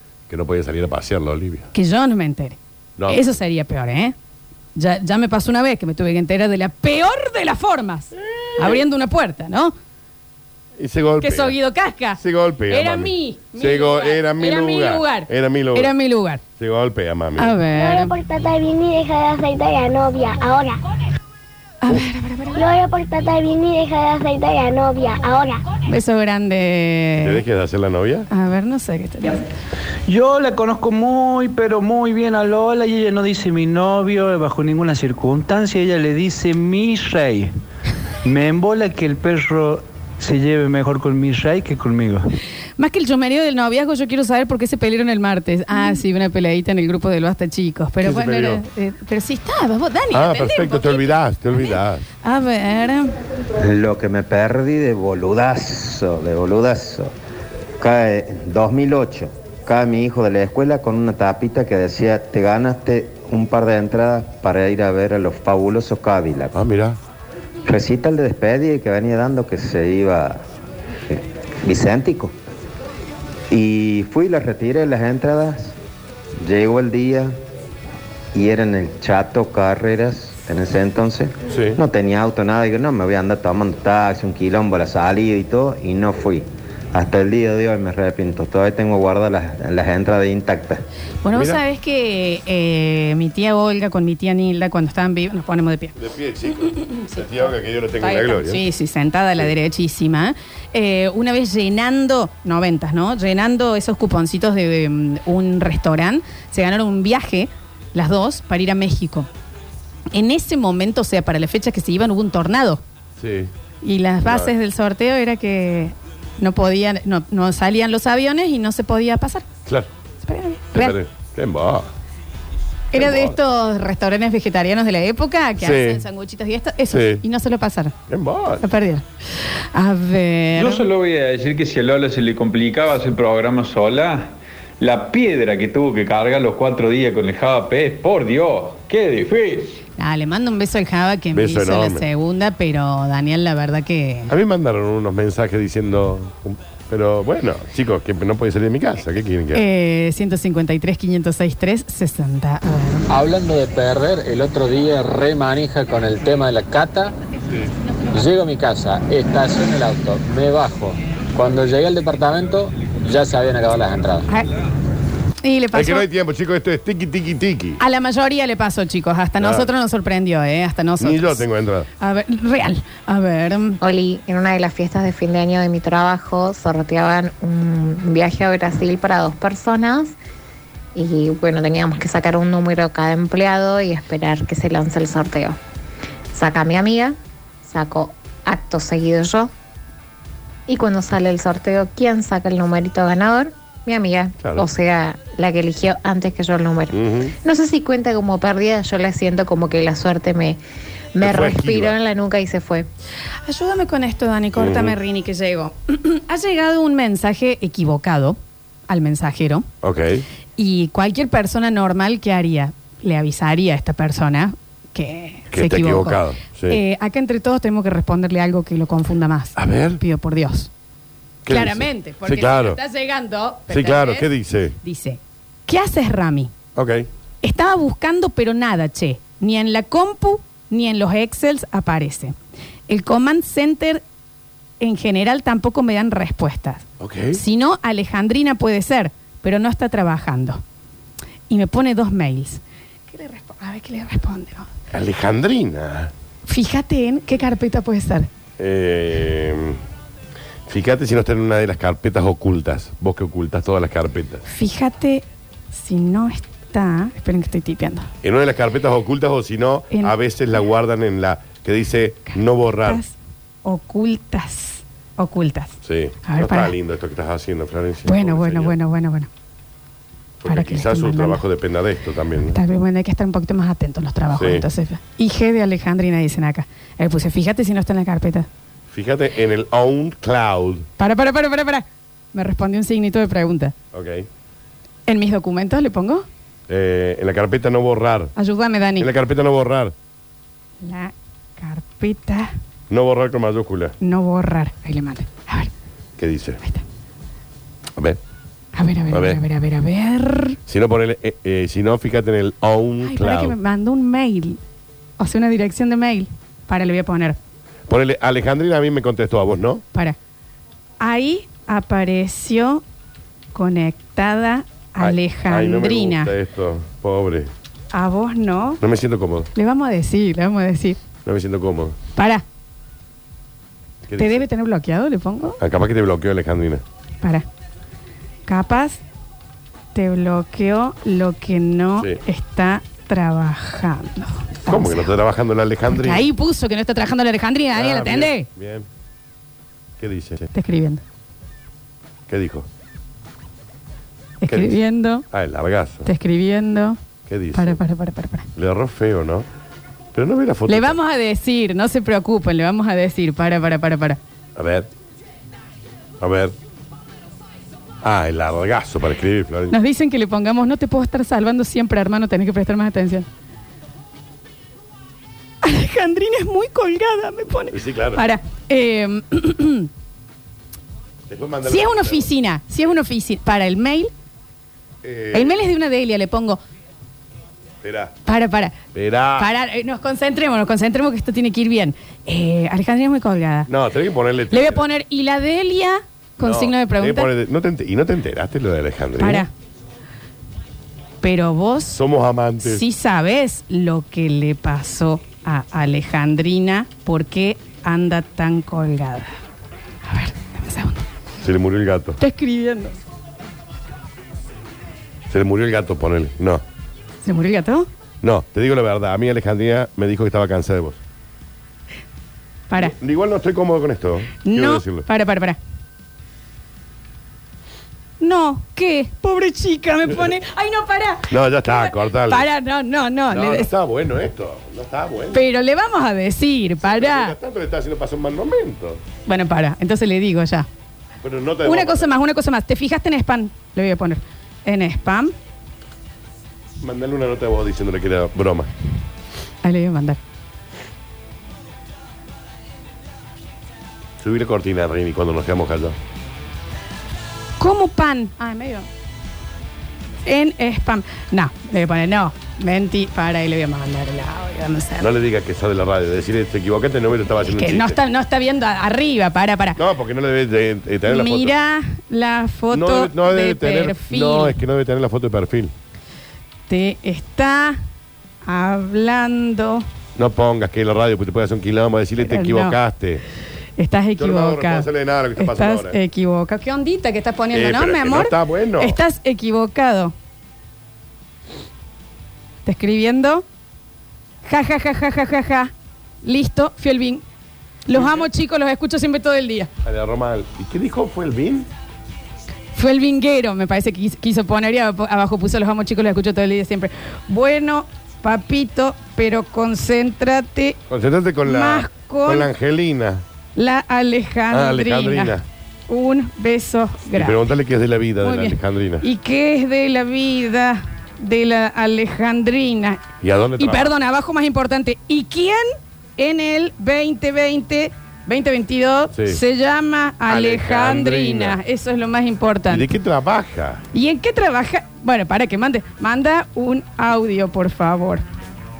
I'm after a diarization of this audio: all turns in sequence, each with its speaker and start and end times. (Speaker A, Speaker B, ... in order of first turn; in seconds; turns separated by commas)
Speaker A: 0.3-1.7, Speaker B: 1.7-2.6, Speaker A: 3.0-3.4, Speaker B: 3.1-4.2, Speaker B: 4.8-9.8, Speaker A: 8.3-8.8, Speaker A: 10.8-11.5, Speaker B: 11.2-16.4, Speaker A: 12.2-15.9, Speaker A: 16.6-17.6, Speaker B: 17.4-18.1, Speaker C: 17.7-20.8, Speaker B: 21.8-22.6, Speaker C: 22.5-25.6, Speaker B: 25.9-27.4, Speaker A: 27.2-28.3, Speaker B: 28.3-29.4, Speaker D: 30.1-37.5, Speaker D: 38.2-42.3, Speaker B: 42.8-53.1, Speaker A: 48.0-48.6, Speaker A: 50.1-52.0, Speaker E: 53.6-57.1, Speaker E: 57.8-66.5, Speaker A: 66.5-67.0, Speaker E: 67.7-70.4, Speaker E: 71.1-72.3, Speaker E: 73.5-75.8, Speaker E: 76.4-77.4, Speaker E: 78.3-90.8, Speaker A: 81.5-81.8, Speaker B: 91.2-96.0, Speaker A: 91.3-91.6, Speaker A: 96.0-98.6, Speaker B: 96.7-97.2, Speaker B: 98.0-109.3, Speaker B: 110.1-112.8, Speaker A: 113.2-113.5, Speaker B: 113.8-119.5, Speaker A: 114.2-114.5, Speaker B: 120.2-121.0, Speaker A: 120.7-121.9, Speaker B: 122.9-128.0, Speaker A: 123.0-123.4, Speaker A: 125.6-126.0, Speaker A: 126.9-127.2, Speaker A: 128.1-128.6, Speaker B: 128.6-129.1, Speaker B: 129.7-130.9, Speaker F: 130.6-139.8, Speaker B: 140.0-144.3, Speaker A: 141.3-142.0, Speaker A: 144.3-149.6, Speaker B: 149.5-153.1, Speaker G: 153.1-157.2, Speaker G: 158.1-164.3, Speaker B: 165.4-166.1, Speaker A: 165.7-167.8, Speaker B: 167.8-171.4, Speaker A: 169.4-169.7, Speaker A: 171.0-171.9, Speaker B: 172.0-173.8, Speaker H: 173.8-180.2, Speaker H: 180.9-185.6, Speaker H: 186.3-189.5, Speaker H: 190.7-200.6, Speaker A: 194.4-194.7, Speaker A: 196.9-197.3, Speaker H: 201.2-202.9, Speaker A: 201.2-201.9, Speaker B: 203.5-209.7, Speaker A: 204.6-205.0, Speaker A: 209.8-210.2, Speaker B: 210.6-220.7, Speaker A: 215.5-216.8, Speaker A: 219.6-220.0, Speaker A: 221.4-222.8, Speaker B: 221.5-224.3, Speaker A: 223.7-224.8, Speaker B: 224.8-226.5, Speaker A: 226.8-227.1, Speaker B: 227.4-232.3, Speaker B: 232.9-234.0, Speaker B: 234.8-240.6, Speaker A: 237.0-237.4, Speaker B: 241.5-244.7, Speaker A: 244.9-246.1, Speaker B: 246.5-248.3, Speaker A: 248.6-249.8, Speaker A: 250.7-254.4, Speaker B: 254.5-258.1, Speaker A: 258.2-263.0, Speaker B: 259.9-260.2, Speaker B: 262.3-266.8, Speaker A: 265.8-268.8, Speaker B: 268.1-269.3, Speaker A: 270.4-272.6, Speaker B: 270.5-271.4, Speaker B: 272.5-278.5, Speaker A: 274.3-274.6, Speaker A: 278.9-280.9, Speaker B: 281.0-283.7, Speaker A: 283.9-284.3, Speaker B: 285.1-286.3, Speaker A: 286.7-288.3, Speaker B: 288.4-289.1, Speaker A: 289.0-289.9, Speaker B: 290.8-292.5, Speaker A: 292.9-293.9, Speaker B: 294.0-295.7, Speaker A: 296.2-296.6, Speaker B: 298.8-300.6, Speaker A: 299.1-299.4, Speaker A: 300.7-303.6, Speaker B: 303.0-304.6, Speaker B: 305.2-307.4, Speaker A: 307.9-309.8, Speaker B: 311.0-312.8, Speaker B: 313.6-316.3, Speaker A: 315.0-317.5, Speaker B: 317.9-318.8, Speaker A: 318.8-319.5, Speaker B: 319.6-321.0, Speaker A: 321.2-321.9, Speaker B: 322.2-322.4, Speaker A: 324.1-324.4, Speaker B: 324.2-325.6, Speaker A: 325.6-326.8, Speaker B: 328.5-329.0, Speaker B: 329.9-335.1, Speaker A: 334.7-336.3, Speaker B: 335.9-338.5, Speaker A: 337.8-338.9, Speaker A: 340.0-340.5, Speaker B: 340.5-341.0, Speaker A: 342.3-342.7, Speaker B: 344.4-345.2, Speaker A: 344.5-344.8, Speaker A: 345.3-346.1, Speaker B: 346.1-347.0, Speaker A: 347.3-347.8, Speaker B: 347.5-348.5, Speaker A: 348.6-349.5, Speaker A: 350.1-351.0, Speaker B: 350.7-354.2, Speaker A: 354.6-354.9, Speaker A: 356.2-356.5, Speaker A: 358.0-359.8, Speaker B: 359.7-363.3, Speaker B: 365.6-369.9, Speaker A: 367.7-368.2, Speaker A: 371.3-372.3, Speaker B: 371.7-374.1, Speaker A: 375.0-375.6, Speaker B: 375.3-376.6, Speaker A: 377.8-378.1, Speaker B: 378.3-378.8, Speaker A: 378.9-379.5, Speaker B: 379.4-383.7, Speaker A: 383.7-384.8, Speaker B: 384.5-387.3, Speaker A: 386.4-389.5, Speaker B: 389.2-389.5, Speaker B: 391.2-392.0, Speaker A: 391.9-392.8, Speaker B: 392.6-399.4, Speaker B: 400.1-401.1, Speaker A: 401.4-402.2, Speaker B: 402.2-402.9, Speaker A: 405.3-406.6, Speaker B: 407.2-407.9, Speaker A: 408.2-411.0, Speaker B: 412.7-412.9, Speaker A: 412.8-415.1, Speaker B: 414.4-415.6, Speaker B: 418.2-423.7, Speaker A: 421.3-422.5, Speaker A: 423.3-425.4, Speaker B: 425.3-427.4, Speaker A: 426.9-429.0, Speaker B: 429.3-430.7, Speaker A: 431.2-432.1, Speaker B: 431.6-435.3, Speaker A: 436.8-438.7, Speaker B: 439.6-440.2, Speaker A: 444.2-445.9, Speaker B: 447.6-448.9, Speaker B: 450.3-455.1, Speaker A: 455.0-458.0, Speaker B: 457.5-459.8, Speaker A: 459.8-461.5, Speaker B: 461.1-464.6, Speaker A: 462.7-465.7, Speaker B: 466.7-467.8, Speaker B: 468.4-469.9, Speaker A: 470.2-473.2, Speaker B: 472.2-472.8, Speaker B: 473.8-480.1, Speaker A: 474.2-476.0, Speaker A: 477.5-479.0, Speaker B: 482.6-483.4, Speaker B: 484.4-485.7, Speaker B: 486.2-487.2, Speaker B: 487.9-489.7, Speaker A: 487.9-488.3, Speaker A: 489.9-491.7, Speaker B: 492.8-500.8, Speaker A: 500.9-503.2, Speaker B: 501.4-502.5, Speaker B: 503.6-505.4, Speaker A: 504.5-505.4, Speaker B: 505.9-507.4, Speaker A: 507.1-509.0, Speaker B: 508.2-513.0, Speaker A: 513.2-513.9, Speaker B: 513.6-522.9, Speaker A: 519.1-519.4, Speaker A: 520.3-521.6, Speaker A: 522.7-523.8, Speaker B: 523.9-528.2